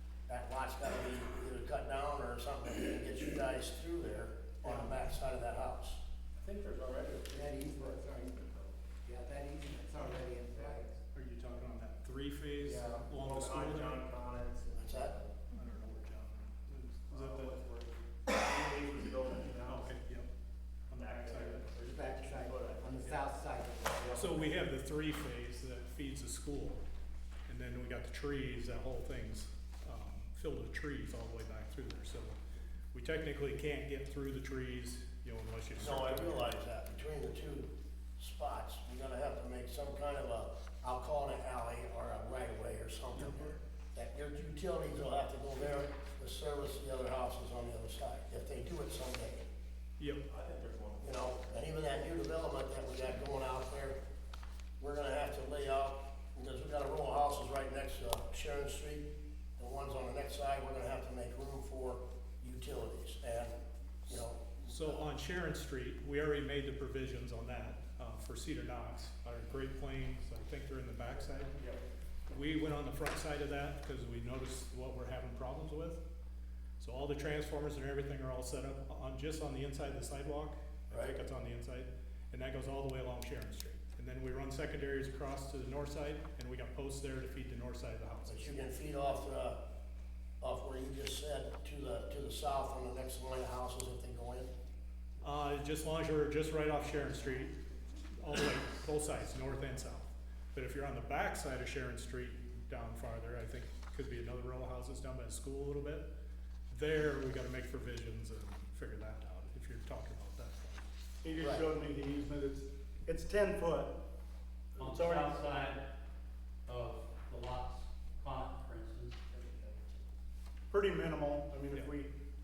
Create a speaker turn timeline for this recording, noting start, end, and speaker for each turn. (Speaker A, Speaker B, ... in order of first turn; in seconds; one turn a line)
Speaker A: 0.3-6.0
Speaker B: 6.4-8.0
Speaker C: 7.3-11.0
Speaker D: 11.1-14.1
Speaker B: 12.6-14.7
Speaker C: 14.7-15.1
Speaker A: 14.8-15.2
Speaker D: 15.5-17.6
Speaker B: 17.1-19.9
Speaker D: 19.6-20.3
Speaker D: 20.9-21.7
Speaker B: 20.9-23.2
Speaker C: 21.8-24.6
Speaker B: 24.0-24.4
Speaker D: 24.2-26.8
Speaker D: 27.5-32.4
Speaker D: 32.9-36.5
Speaker A: 35.8-49.4
Speaker D: 50.0-50.2
Speaker B: 50.3-51.1
Speaker A: 51.0-54.0
Speaker A: 54.8-59.0
Speaker A: 59.6-65.0
Speaker D: 64.7-71.6
Speaker B: 71.5-71.8
Speaker D: 72.3-76.0
Speaker D: 76.8-88.6
Speaker A: 80.9-81.2
Speaker A: 88.3-89.6
Speaker A: 90.4-94.5
Speaker D: 95.2-97.6
Speaker D: 98.2-106.0
Speaker D: 106.7-110.8
Speaker E: 111.2-114.0
Speaker A: 111.4-111.7
Speaker E: 114.7-115.5
Speaker F: 114.8-115.9
Speaker F: 116.7-119.8
Speaker E: 120.7-122.1